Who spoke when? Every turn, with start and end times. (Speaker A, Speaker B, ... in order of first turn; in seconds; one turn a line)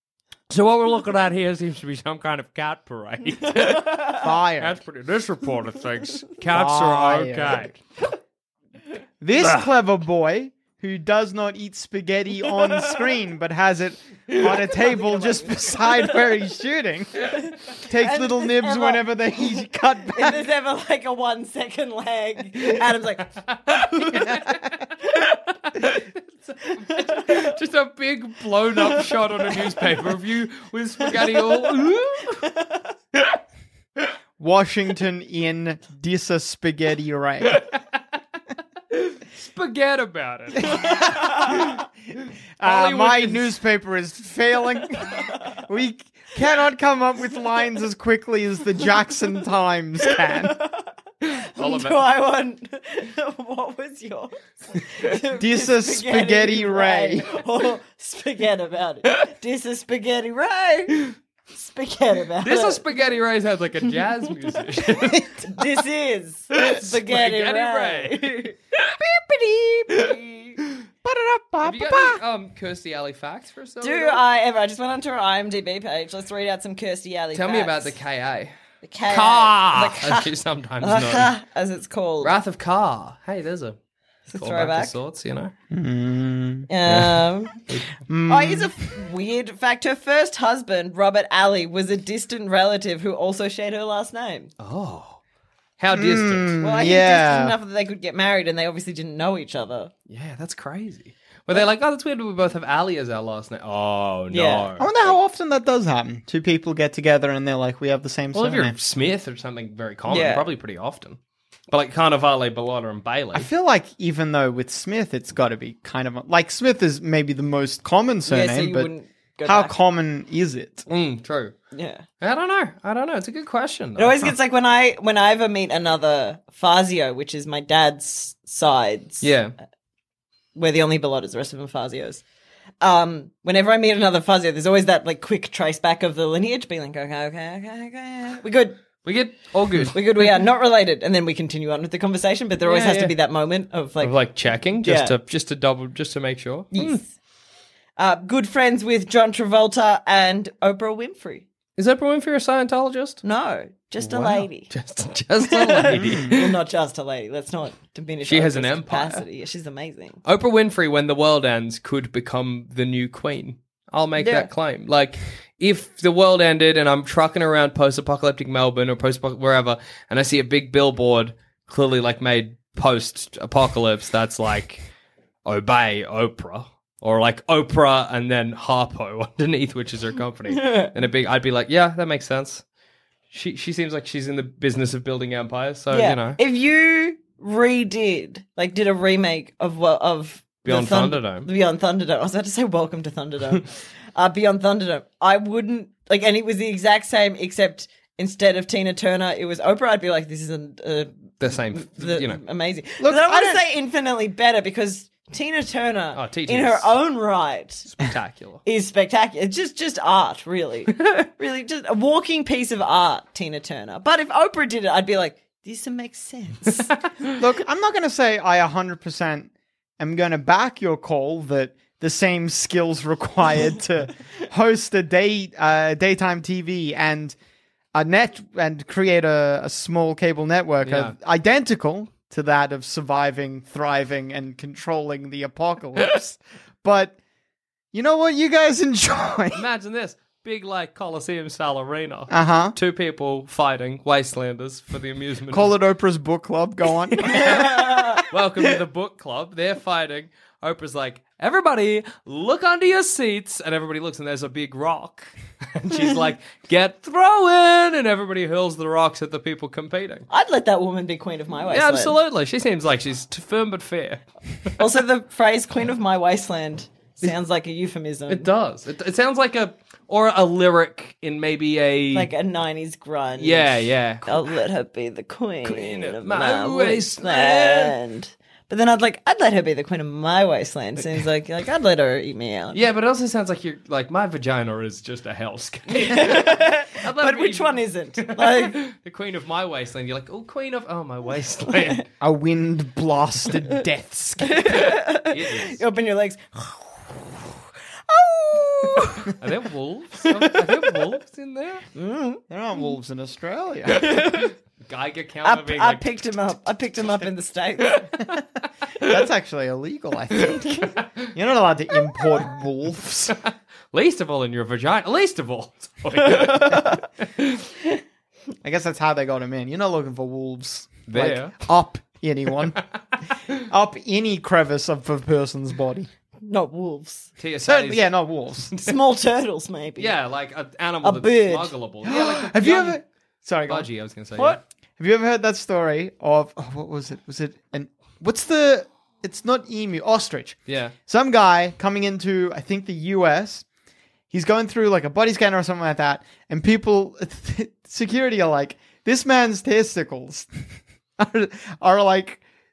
Speaker A: 0.5-7.8
Speaker B: 4.1-4.8
Speaker B: 6.5-7.7
Speaker B: 9.2-20.4
Speaker A: 9.4-9.7
Speaker C: 14.7-16.2
Speaker C: 17.4-19.1
Speaker C: 20.1-23.3
Speaker A: 23.5-32.5
Speaker C: 24.0-24.3
Speaker C: 26.9-27.5
Speaker C: 31.4-31.7
Speaker B: 34.4-37.6
Speaker A: 37.5-37.8
Speaker A: 38.9-41.8
Speaker B: 40.6-41.8
Speaker B: 42.6-50.6
Speaker A: 42.6-43.5
Speaker C: 50.5-62.9
Speaker A: 51.6-52.0
Speaker B: 55.3-57.4
Speaker A: 62.4-65.3
Speaker C: 65.4-70.6
Speaker A: 66.5-68.5
Speaker B: 71.0-72.2
Speaker A: 71.6-74.2
Speaker C: 73.8-77.9
Speaker A: 77.3-78.5
Speaker C: 78.8-82.3
Speaker A: 79.1-81.3
Speaker A: 82.2-83.8
Speaker C: 84.3-84.9
Speaker A: 84.3-85.5
Speaker B: 85.7-87.0
Speaker C: 86.7-87.6
Speaker B: 88.1-88.7
Speaker C: 88.3-94.5
Speaker A: 94.6-95.2
Speaker A: 95.8-96.6
Speaker B: 95.9-97.5
Speaker C: 96.6-99.9
Speaker A: 100.1-105.2
Speaker C: 104.3-104.7
Speaker B: 104.8-108.8
Speaker A: 108.3-111.2
Speaker C: 110.1-110.5
Speaker A: 111.7-113.5
Speaker B: 113.3-118.9
Speaker C: 118.3-119.8
Speaker B: 119.5-120.9
Speaker A: 120.9-121.5
Speaker C: 121.7-122.0
Speaker A: 122.2-124.3
Speaker C: 124.0-129.3
Speaker A: 129.2-129.5
Speaker C: 130.6-132.2
Speaker C: 132.8-138.8
Speaker A: 139.0-140.0
Speaker C: 139.9-144.2
Speaker A: 142.6-143.1
Speaker A: 144.0-147.0
Speaker C: 144.8-145.2
Speaker C: 146.7-147.1
Speaker C: 148.0-151.5
Speaker A: 151.8-153.2
Speaker C: 153.2-154.7
Speaker A: 154.0-156.4
Speaker C: 155.4-160.2
Speaker B: 155.9-156.3
Speaker A: 158.2-159.2
Speaker A: 160.2-174.9
Speaker C: 164.2-164.5
Speaker A: 175.4-182.6
Speaker C: 180.5-180.9
Speaker A: 183.3-186.4
Speaker C: 185.9-207.9
Speaker A: 190.7-191.5
Speaker A: 201.4-202.4
Speaker B: 203.0-203.6
Speaker A: 206.2-207.0
Speaker A: 207.9-208.6
Speaker C: 208.7-216.9
Speaker A: 210.9-211.3
Speaker B: 217.3-227.4
Speaker B: 227.9-237.2
Speaker A: 230.8-231.2
Speaker B: 237.9-239.6
Speaker A: 239.5-245.7
Speaker B: 242.3-242.8
Speaker B: 245.5-247.8
Speaker A: 247.3-260.3
Speaker C: 247.3-248.2
Speaker C: 260.3-262.1
Speaker A: 261.7-264.8
Speaker C: 264.8-268.5
Speaker A: 268.3-272.3
Speaker C: 272.1-282.8
Speaker A: 273.4-274.5
Speaker A: 275.6-278.0
Speaker A: 282.7-292.1
Speaker C: 285.9-288.8
Speaker B: 292.2-294.7
Speaker C: 294.4-297.4
Speaker A: 295.2-295.8
Speaker C: 298.1-299.4
Speaker A: 299.4-301.9
Speaker C: 301.9-302.4
Speaker B: 302.5-304.2
Speaker C: 303.9-304.5
Speaker A: 304.9-306.1
Speaker C: 305.4-308.1
Speaker B: 309.0-313.4
Speaker A: 310.4-311.0
Speaker A: 313.3-317.6
Speaker C: 316.3-317.0
Speaker B: 318.6-322.8
Speaker A: 321.1-321.6
Speaker B: 323.5-326.1
Speaker C: 326.4-327.3
Speaker A: 327.4-329.0
Speaker B: 327.6-328.7
Speaker C: 328.8-330.2
Speaker A: 330.0-333.0
Speaker C: 331.0-331.7
Speaker B: 332.1-343.6
Speaker A: 333.7-334.6
Speaker A: 340.7-340.9
Speaker B: 344.3-352.4